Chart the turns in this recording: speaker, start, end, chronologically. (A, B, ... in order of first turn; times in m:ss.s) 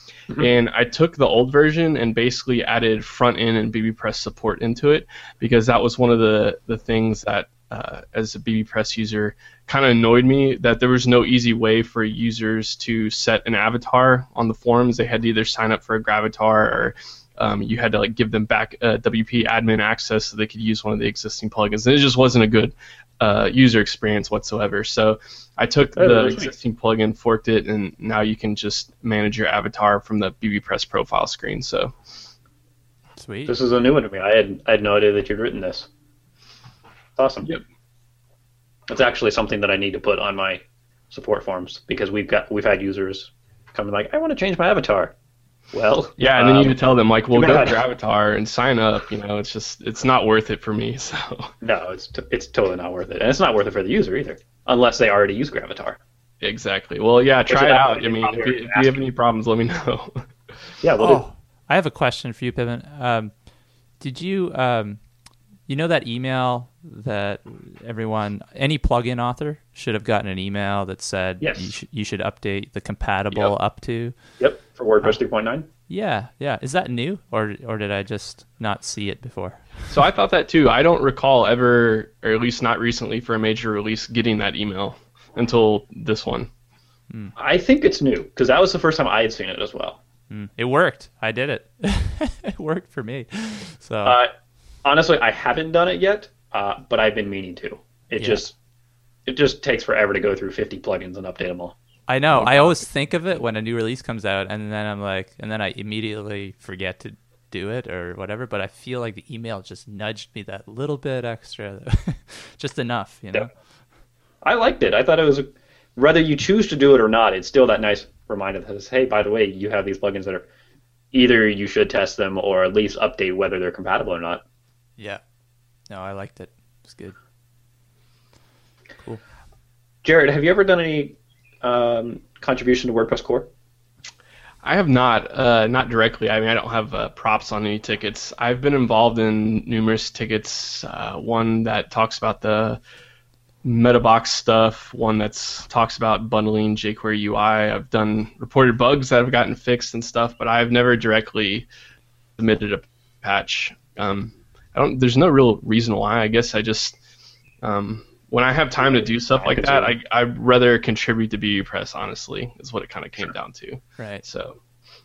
0:00.4-0:31.9 A
0:26.0-0:26.5 B
0:33.2-0:33.5 C
0:33.5-0:35.9 B
0:37.2-0:37.5 B
0:38.9-0:45.1 B
0:45.7-0:46.8 B
0:46.2-0:51.5 A
0:47.3-0:47.8 B
0:51.6-0:56.0 B
0:56.4-1:00.3 A
0:57.5-0:59.0 B
1:00.8-1:01.2 B
1:01.0-1:03.3 C
1:04.0-1:05.0 C
1:05.7-1:14.2 C
1:11.4-1:11.7 B
1:14.4-1:15.7 B
1:15.9-1:19.9 C
1:19.9-1:26.5 A
1:27.1-1:27.4 C
1:27.4-1:30.0 B
1:30.3-1:34.2 C
1:34.0-1:34.3 B
1:34.8-1:38.6 B
1:39.3-1:41.8 B
1:42.1-1:53.5 C
1:42.3-1:42.9 B
1:54.4-2:00.5 B
2:01.1-2:04.4 B
2:05.9-2:07.2 C
2:10.0-2:13.5 B
2:14.6-2:22.8 A
2:23.6-2:31.7 A
2:32.4-2:37.0 A
2:37.6-2:44.6 A
2:38.8-2:40.0 B
2:44.0-2:44.2 C